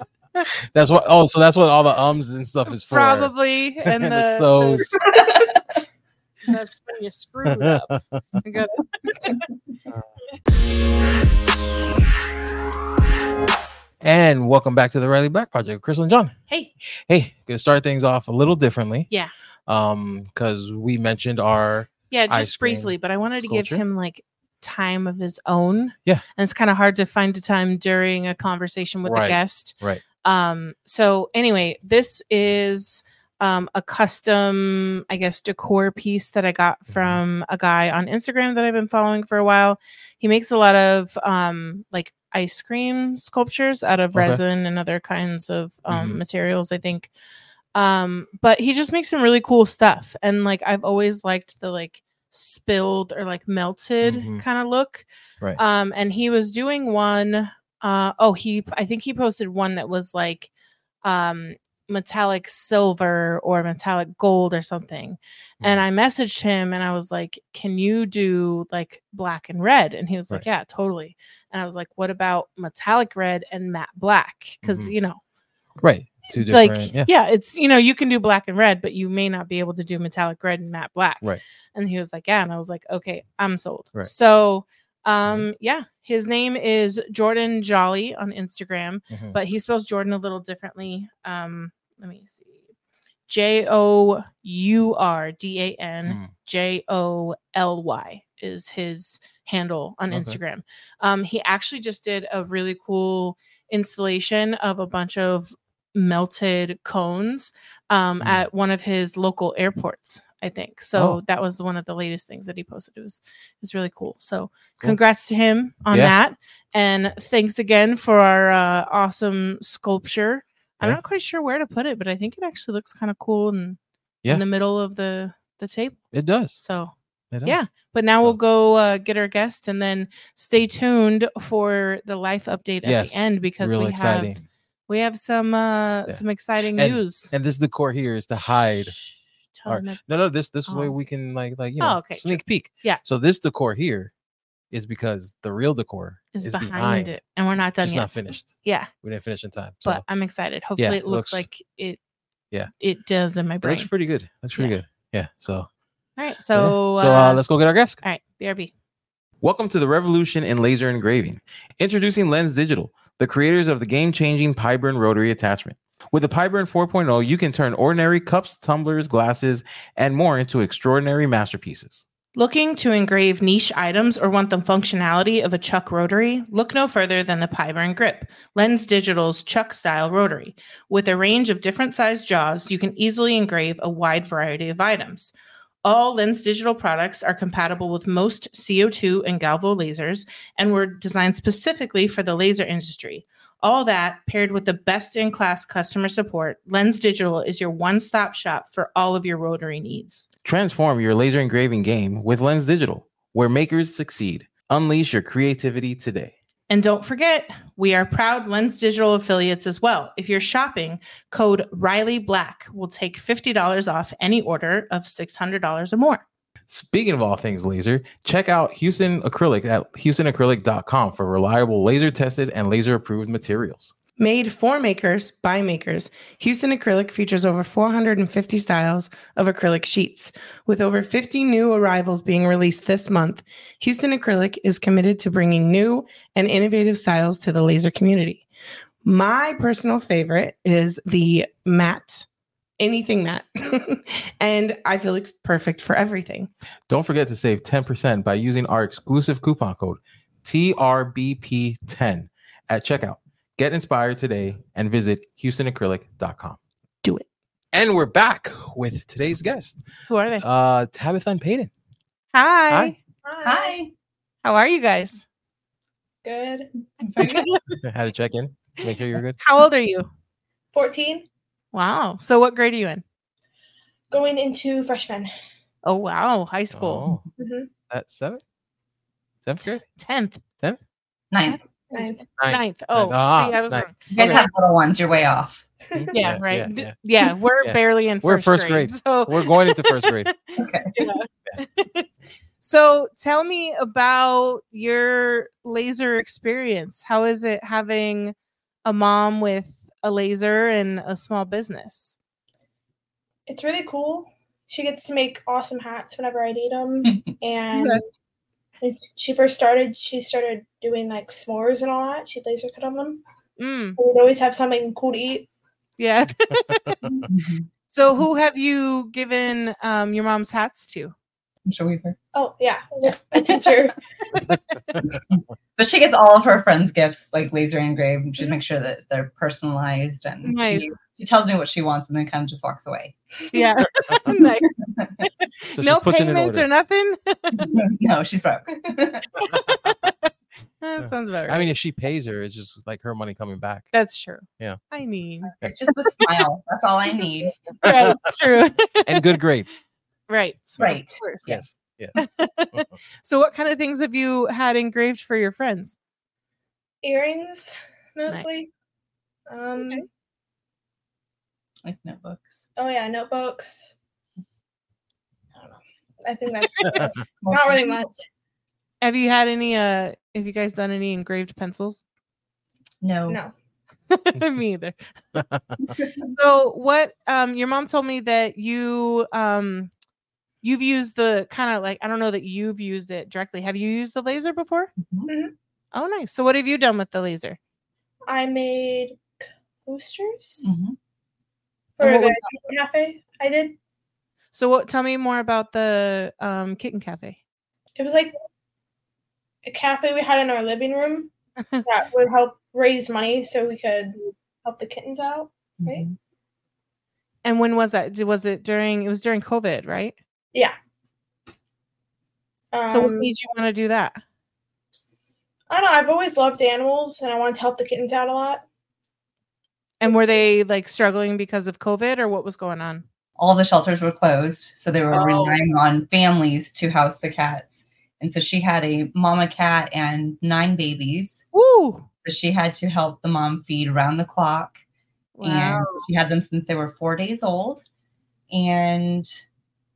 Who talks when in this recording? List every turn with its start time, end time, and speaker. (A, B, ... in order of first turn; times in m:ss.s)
0:00.7-0:04.9 A
0:02.9-0:04.9 B
0:05.1-0:05.8 C
0:06.5-0:07.9 B
0:07.5-0:08.0 A
0:08.4-0:09.4 B
0:14.0-0:16.3 A
0:17.1-0:19.1 A
0:19.7-0:23.8 A
0:22.1-0:47.1 B
0:29.0-0:30.0 A
0:36.9-0:37.2 A
0:44.2-0:44.4 A
0:45.9-0:46.2 A
0:47.8-1:00.5 B
0:54.0-0:54.4 A
1:01.0-1:15.2 B
1:14.6-1:14.9 A
1:15.8-1:17.1 A
1:16.4-1:32.6 B
1:29.1-1:29.4 A
1:33.3-2:06.0 B
1:40.1-1:40.4 A
1:55.9-1:56.2 A
2:06.1-2:06.6 A
2:06.6-2:06.9 B
2:07.3-2:07.6 A
2:07.4-2:14.4 B
2:12.8-2:14.4 A
2:14.9-2:17.3 B
2:16.8-2:19.0 A
2:18.9-2:20.0 B
2:19.7-2:24.1 A
2:20.7-2:21.0 B
2:21.8-2:23.0 B
2:24.7-2:27.1 A
2:26.3-2:28.9 B
2:27.8-2:30.0 A
2:29.8-2:32.0 B
2:30.8-2:31.4 A
2:32.8-2:33.9 B
2:33.6-2:35.7 A
2:36.2-2:37.4 B
2:36.5-2:38.0 A
2:38.0-2:38.7 B
2:39.4-2:52.0 A
2:52.4-3:05.3 B
3:05.8-3:20.3 B
3:20.4-3:26.3 A
3:26.7-3:36.2 B
3:36.7-3:43.9 A
3:44.2-3:58.5 B
3:59.0-4:02.3 B
4:02.8-4:06.5 B
4:06.9-4:16.6 A
4:17.7-4:19.8 A
4:20.1-4:20.4 B
4:20.4-4:21.7 A
4:22.3-4:23.0 B
4:23.2-4:23.8 D
4:23.4-4:23.9 C
4:24.4-4:25.2 B
4:26.2-4:26.7 D
4:27.0-4:27.5 C
4:27.2-4:27.8 B
4:27.8-4:29.4 A
4:29.4-4:30.1 B
4:30.7-4:31.2 D
4:31.7-4:33.0 B
4:34.1-4:35.3 D
4:35.8-4:37.1 B
4:36.7-4:37.2 A
4:37.4-4:37.7 D
4:37.9-4:38.4 A
4:39.4-4:39.9 A
4:39.9-4:40.4 B
4:41.3-4:41.6 C
4:41.5-4:44.4 B
4:41.9-4:42.2 D
4:42.4-4:43.9 A
4:44.1-4:45.6 C
4:45.9-4:46.9 A
4:46.1-4:50.3 B
4:47.6-4:50.3 A
4:50.6-4:50.9 C
4:50.9-4:52.1 B
4:52.6-5:02.2 B
5:03.5-5:08.0 D
5:07.7-5:08.0 B
5:08.8-5:13.2 D
5:13.6-5:14.0 B
5:14.0-5:15.5 D
5:16.0-5:17.1 B
5:17.2-5:17.7 C
5:17.9-5:21.1 B
5:21.7-5:22.2 C
5:22.3-5:24.0 D
5:23.0-5:23.7 C
5:25.1-5:33.2 C
5:30.4-5:30.9 B
5:33.5-5:34.7 B
5:34.8-5:35.1 C
5:35.2-5:37.8 B
5:35.7-5:36.7 A
5:37.6-5:39.3 C
5:39.4-5:40.3 B
5:40.8-5:41.7 B
5:41.0-5:43.9 A
5:43.9-5:45.5 B
5:45.6-5:47.6 C
5:47.8-5:49.4 B
5:47.8-5:48.2 A
5:49.1-5:49.8 A
5:50.3-5:51.5 B
5:50.8-5:51.6 C
5:51.5-5:52.2 A
5:52.2-5:56.0 B
5:57.0-5:58.7 D
5:59.5-6:00.0 D
5:59.8-6:00.0 B
6:01.8-6:02.6 C
6:02.8-6:03.9 D
6:05.6-6:08.2 D
6:06.8-6:07.1 B
6:07.4-6:07.9 C
6:09.0-6:12.0 B
6:13.0-6:13.4 C
6:13.3-6:13.5 D
6:14.1-6:15.0 B
6:15.4-6:15.8 A
6:15.8-6:16.3 C
6:16.3-6:19.9 B
6:20.6-6:24.9 B
6:25.0-6:25.3 C
6:25.3-6:25.5 D
6:25.9-6:27.6 B
6:28.3-6:30.8 D
6:30.6-6:31.0 C
6:32.0-6:33.8 D
6:32.0-6:32.4 B
6:34.5-6:37.4 B
6:38.0-6:38.3 D
6:39.6-6:41.3 D
6:41.8-6:46.0 D
6:45.8-6:46.2 C
6:47.4-6:50.2 B
6:52.7-6:53.3 D
6:52.9-6:54.2 B
6:55.7-6:58.6 D
7:00.0-7:03.0 B
7:00.1-7:00.4 D
7:03.4-7:11.4 C
7:05.1-7:05.6 B
7:11.5-7:12.1 B
7:12.2-7:14.8 C
7:15.4-7:16.1 B
7:15.4-7:17.8 C
7:18.5-7:19.3 C